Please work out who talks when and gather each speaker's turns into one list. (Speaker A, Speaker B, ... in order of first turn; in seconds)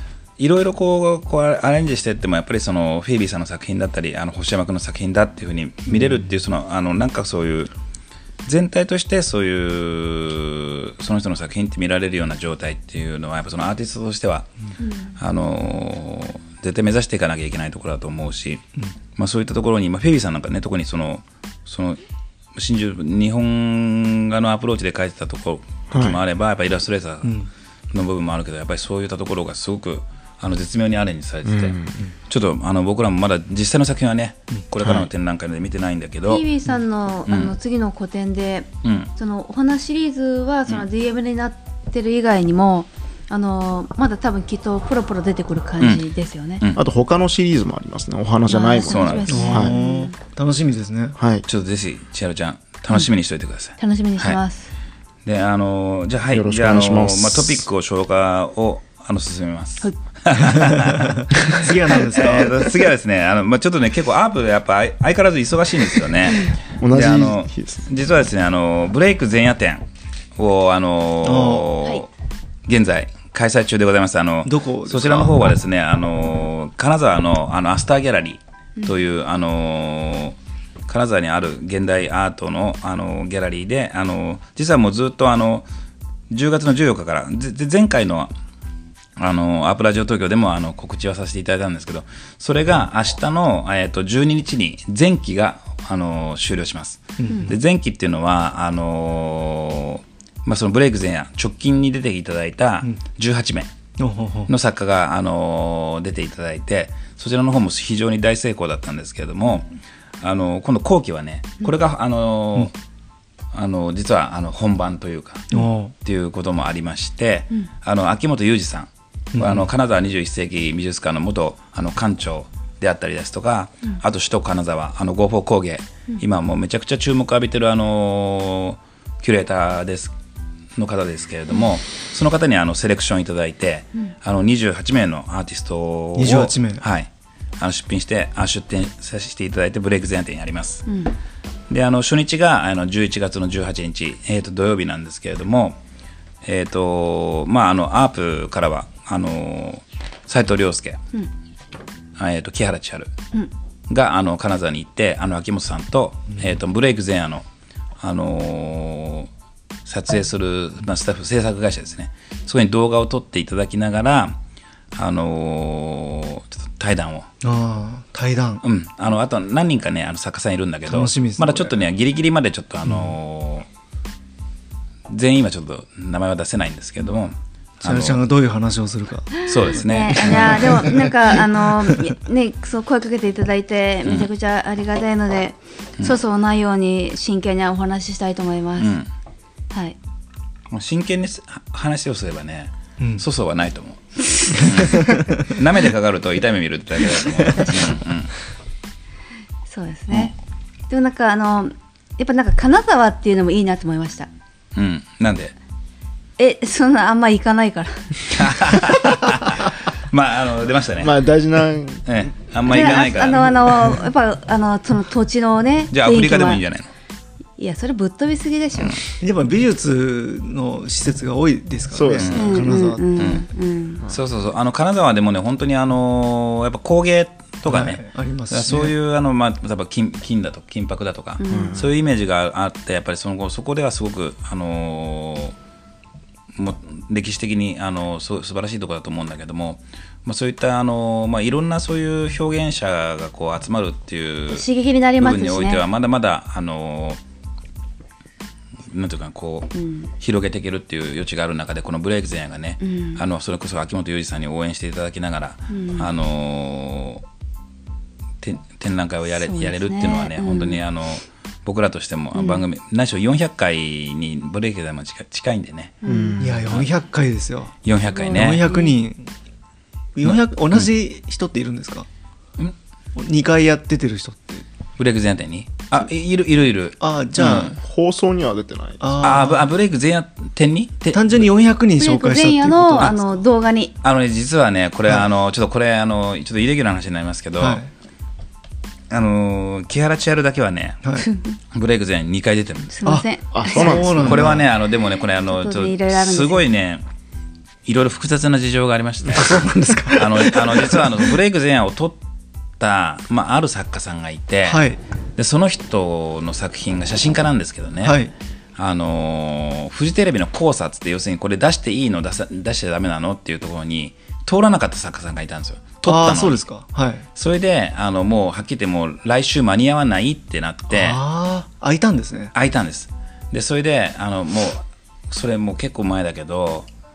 Speaker A: 0.4-7.7, 8.4-14.5, 15.2-18.6, 19.2-22.0, 22.6-27.4, 27.9-31.8, 32.3-36.5, 37.3-37.5, 38.8-39.1, 45.8-46.0, 48.9-49.7, 51.5-54.4, 55.2-69.8, 70.4-72.1, 72.7-80.4, 80.9-85.7, 86.3-88.3, 89.2-103.7, 104.5-109.7, 110.2-112.7, 113.5-130.1, 130.8-140.9, 141.7-145.8, 146.4-151.0, 152.2-153.1, 153.9-157.4, 158.0-159.3, 159.9-164.4, 165.0-167.3, 168.6-173.7, 175.1-178.2, 179.5-180.9, 188.8-189.1, 190.7-198.3, 204.8-205.6, 208.3-211.1, 212.1-213.8, 215.9-216.9, 222.2-222.5, 223.2-223.4, 224.1-235.6, 236.6-244.7, 245.2-247.2, 248.9-257.2, 258.4-266.0, 267.8-268.6, 270.2-270.9, 275.0-277.8, 279.2-281.4, 284.0-287.8, 289.1-291.1, 291.7-292.9, 294.2-297.1, 297.9-302.2, 302.8-304.9, 305.4-308.2, 308.8-316.6, 317.4-321.2, 322.5-326.9
Speaker B: 14.8-15.1, 36.3-46.6, 48.5-50.1, 53.8-54.7, 66.3-66.6, 140.9-141.1, 179.4-189.0, 189.7-190.0, 197.5-198.0, 199.7-200.3, 200.9-204.3, 206.4-208.4, 212.7-216.6, 217.6-219.0, 222.3-224.0, 231.4-231.8, 244.5-245.8, 249.7-250.1, 252.8-253.2, 255.7-256.1, 259.4-260.8, 262.4-262.6, 266.0-266.4, 268.1-268.9, 282.0-283.9, 291.2-291.6, 292.9-294.4, 295.5-296.6
Speaker C: 25.9-26.2, 31.5-32.0, 46.8-49.7, 51.2-51.4, 56.3-57.6, 66.8-67.9, 211.0-212.2, 221.9-222.5, 231.5-231.9, 266.1-266.7, 277.5-279.1, 293.5-294.5
Speaker D: 27.2-27.5, 49.3-51.2, 60.5-62.7, 71.2-71.7, 74.5-75.4, 97.2-97.6, 104.0-104.5, 115.5-115.9, 119.3-119.7, 136.2-136.9, 167.4-168.6, 170.9-171.7, 177.8-179.3, 180.2-182.0, 193.0-193.2, 194.6-195.5, 219.2-223.3, 227.7-228.9, 266.4-267.8, 268.3-269.3, 270.2-272.1, 273.2-274.7, 277.0-277.8, 279.0-279.7, 281.1-283.1, 287.6-287.9, 293.0-294.7, 299.3-301.3, 304.7-305.0, 308.0-308.3, 316.1-317.2, 320.9-322.5